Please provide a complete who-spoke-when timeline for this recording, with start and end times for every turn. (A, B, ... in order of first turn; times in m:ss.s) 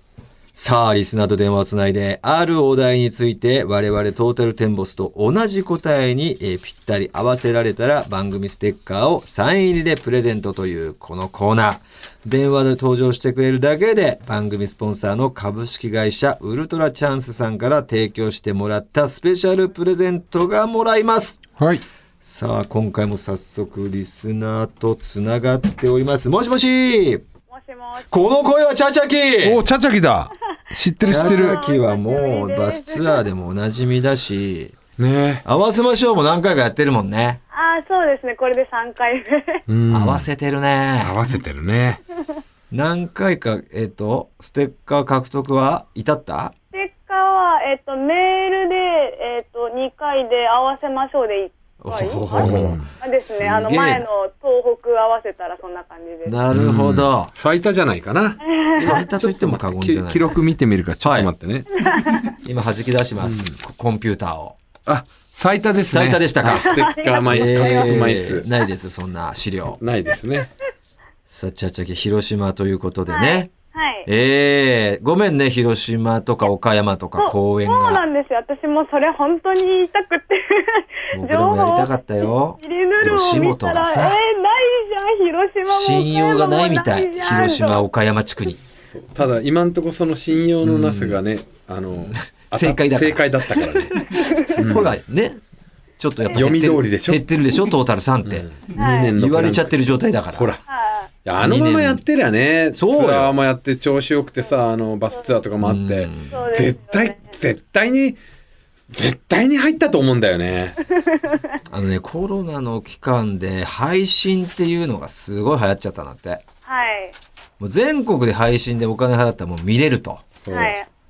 0:00.6-0:21.4 A
0:21.6-0:21.8 B
0:22.2-0:27.2 A
0:27.5-0:28.4 C
0:28.1-0:29.6 A
0:29.4-0:31.6 B
0:31.0-0:33.2 C
0:31.0-0:34.8 A
0:35.0-0:35.4 B
0:35.4-0:37.4 A
0:37.5-0:39.6 C
0:39.7-0:40.3 B
0:39.9-0:41.2 A
0:41.0-0:42.0 B
0:42.7-0:46.5 A
0:46.7-0:56.4 C
0:51.8-0:54.1 A
0:52.4-0:52.9 B
0:56.3-0:57.3 A
0:56.5-1:02.3 B
0:58.4-0:59.1 C
0:58.8-1:00.3 A
1:01.0-1:01.3 A
1:01.8-1:02.3 C
1:02.4-1:04.6 A
1:03.2-1:03.6 B
1:04.9-1:08.5 B
1:05.9-1:09.8 A
1:06.6-1:08.2 C
1:09.8-1:10.5 B
1:11.3-1:13.5 A
1:13.1-1:14.1 C
1:14.1-1:18.0 A
1:17.2-1:27.9 C
1:21.1-1:24.2 A
1:25.7-1:28.6 A
1:28.7-1:34.9 B
1:30.6-1:31.2 A
1:32.3-1:35.4 A
1:36.0-1:38.6 A
1:36.2-1:36.5 C
1:36.3-1:37.2 B
1:38.3-1:40.6 B
1:38.7-1:39.1 C
1:39.2-1:40.6 A
1:40.7-1:41.1 C
1:41.2-1:48.2 B
1:41.4-1:42.0 A
1:42.7-1:43.4 A
1:45.6-1:46.4 A
1:46.3-1:47.3 C
1:48.9-1:50.8 B
1:51.0-1:51.6 C
1:51.7-1:56.4 A
1:56.7-1:57.2 C
1:57.6-2:00.2 A
2:00.4-2:00.8 B
2:00.5-2:00.9 C